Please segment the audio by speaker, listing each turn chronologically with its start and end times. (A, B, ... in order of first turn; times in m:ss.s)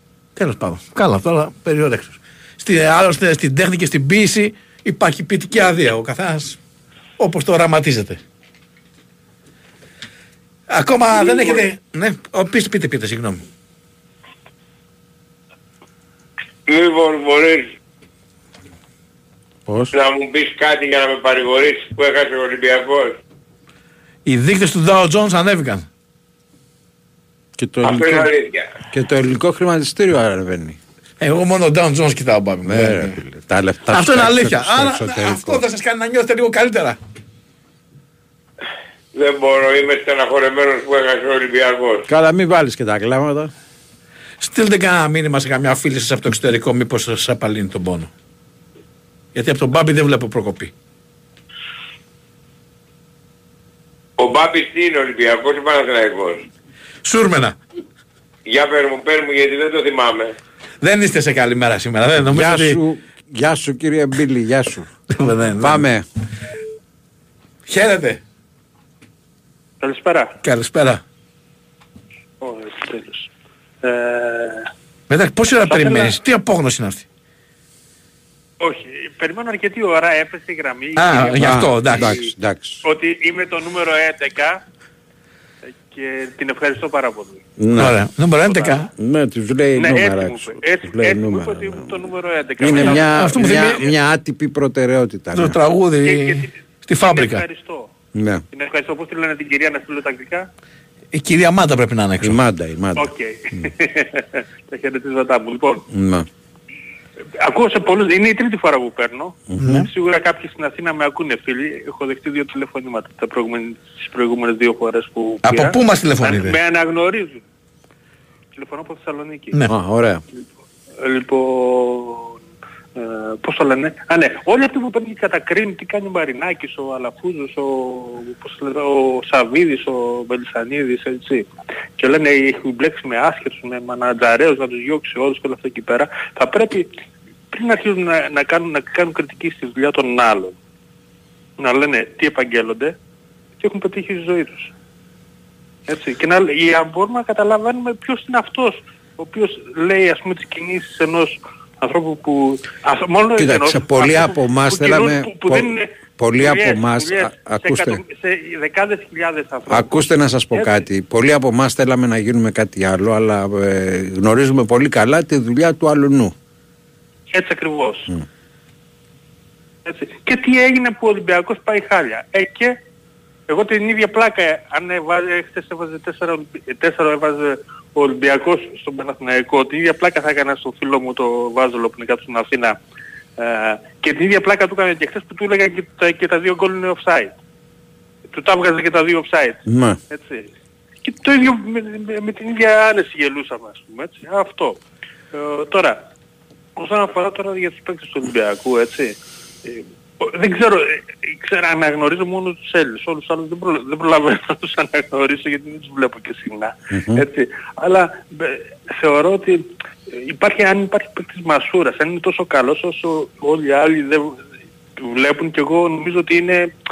0:00.4-0:06.6 A
0:07.2-0:08.2 A
0:10.7-0:13.4 A
0:11.2-0:11.6 B
0:16.7-0:17.7 B
0:19.7-0:19.9 C
0:19.9-0:23.2 B
0:24.3-0:25.9 A
0:27.6-0:28.3 C
0:27.8-0:28.6 B
0:28.9-0:30.8 C
0:31.2-0:33.2 A
0:32.6-0:35.6 C
0:33.9-0:37.0 A
0:39.2-0:42.1 B
0:42.1-0:43.5 C
0:44.4-0:48.1 A
0:49.4-0:50.7 A
0:54.2-0:56.5 B
0:57.0-0:57.6 A
0:58.5-1:00.3 B
1:00.8-1:02.8 A
1:02.3-1:04.9 C
1:05.1-1:05.8 A
1:05.6-1:06.0 C
1:07.7-1:08.2 A
1:09.8-1:10.3 D
1:10.4-1:11.0 A
1:12.4-1:13.3 D
1:13.8-1:14.7 D
1:15.1-1:17.0 A
1:15.6-1:16.2 D
1:18.6-1:22.3 D
1:21.0-1:22.2 A
1:21.4-1:22.8 C
1:22.8-1:24.6 D
1:25.7-1:27.4 D
1:27.6-1:28.0 C
1:27.8-1:28.9 A
1:28.4-1:28.8 D
1:29.0-1:31.9 C
1:29.8-1:33.4 D
1:32.6-1:35.6 C
1:32.9-1:33.9 A
1:35.3-1:37.4 A
1:36.0-1:37.9 D
1:38.1-1:38.4 C
1:38.5-1:40.5 D
1:41.1-1:42.4 A
1:42.2-1:43.1 C
1:43.0-1:45.8 D
1:45.9-1:46.3 C
1:47.4-1:57.4 D
1:49.5-1:49.8 C
1:49.6-1:49.9 A
1:55.4-1:56.6 A
1:58.5-1:59.6 D
1:59.7-2:00.2 C
2:01.0-2:02.4 D
2:03.0-2:16.9 D
2:17.5-2:20.6 D
2:21.6-2:22.9 D
2:23.6-2:24.7 D
2:25.9-2:40.9 D
2:33.4-2:38.0 C
2:39.7-2:46.4 C
2:47.3-2:48.1 D
2:49.8-2:52.8 D
2:53.5-3:02.8 D
3:03.4-3:07.3 D
3:08.3-3:10.5 D
3:09.7-3:10.0 C
3:11.0-3:14.8 D
3:15.3-3:16.0 D
3:16.8-3:34.4 D
3:26.9-3:27.2 C
3:35.0-3:36.7 D